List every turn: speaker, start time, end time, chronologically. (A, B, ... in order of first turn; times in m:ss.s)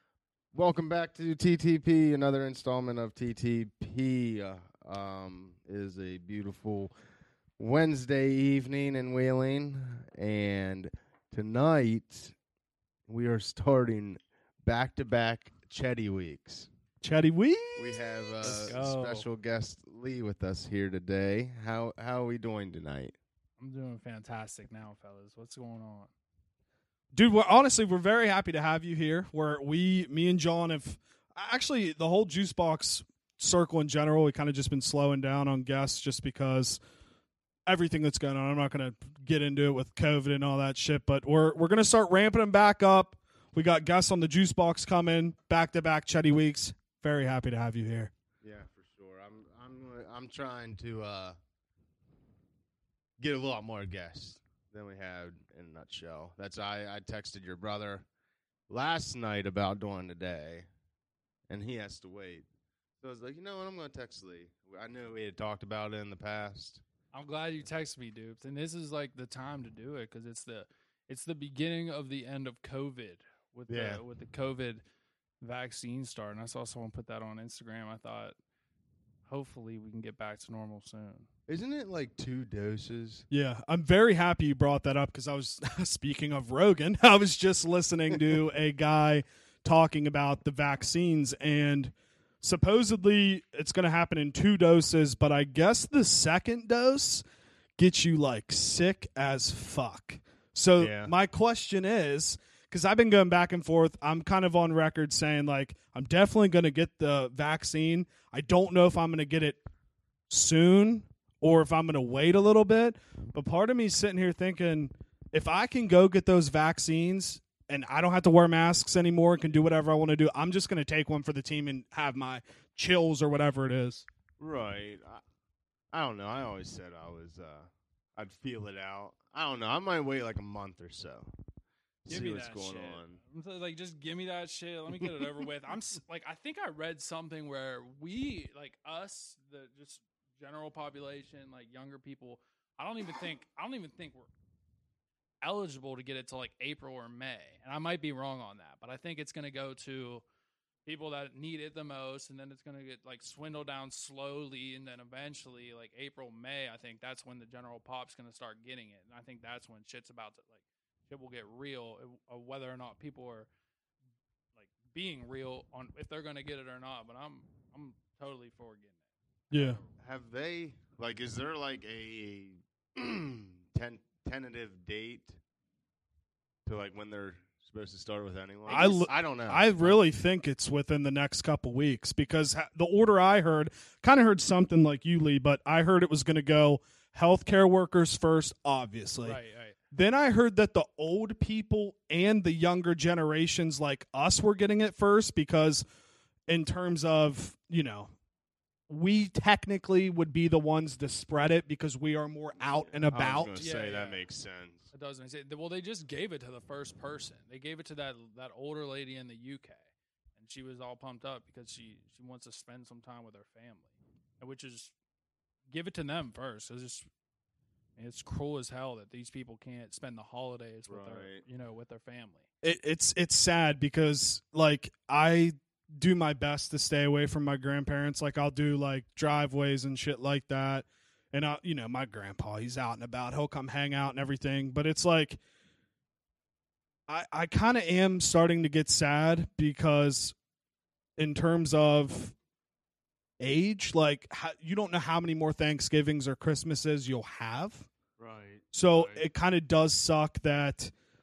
0:00.5-0:06.9 A
0:07.6-0:12.4 A
0:13.1-0:16.7 A
0:17.0-0:18.7 B
0:17.8-0:23.2 A
0:18.4-0:19.2 C
0:23.6-0:26.1 C
0:27.1-0:36.8 B
0:37.7-0:48.1 B
0:48.4-0:51.4 A
0:53.2-0:58.0 A
0:58.7-1:00.7 A
1:01.5-1:02.4 A
1:03.0-1:06.8 A
1:07.1-1:14.8 C
1:13.7-1:14.0 A
1:15.4-1:18.4 C
1:19.3-1:21.3 C
1:21.5-1:23.3 A
1:23.3-1:37.2 B
1:37.8-1:49.6 B
1:40.8-1:41.1 A
1:50.3-2:04.0 B
2:04.4-2:05.2 A
2:05.9-2:11.3 A
2:12.1-2:13.2 A
2:12.1-2:24.3 C
2:25.4-2:30.2 C
2:30.9-2:40.6 C
2:41.1-2:43.5 C
2:44.6-2:49.0 C
2:49.5-2:49.9 C
2:49.5-2:49.8 B
2:50.0-2:55.4 A
2:56.7-3:00.0 A
2:58.7-2:59.1 C
2:58.7-3:09.4 B
3:09.2-3:09.8 C
3:09.9-3:15.8 B
3:16.5-3:18.1 B
3:18.9-3:23.5 B
3:22.9-3:24.9 A
3:23.6-3:24.2 C
3:24.9-3:29.8 C
3:30.4-3:33.9 C
3:34.4-3:34.9 C
3:35.7-3:37.1 C
3:38.0-3:42.5 C
3:40.9-3:41.4 A
3:42.6-3:55.4 B
3:57.1-4:00.4 B
4:01.2-4:02.3 B
4:03.4-4:07.9 B
4:08.2-4:09.2 A
4:08.7-4:10.9 B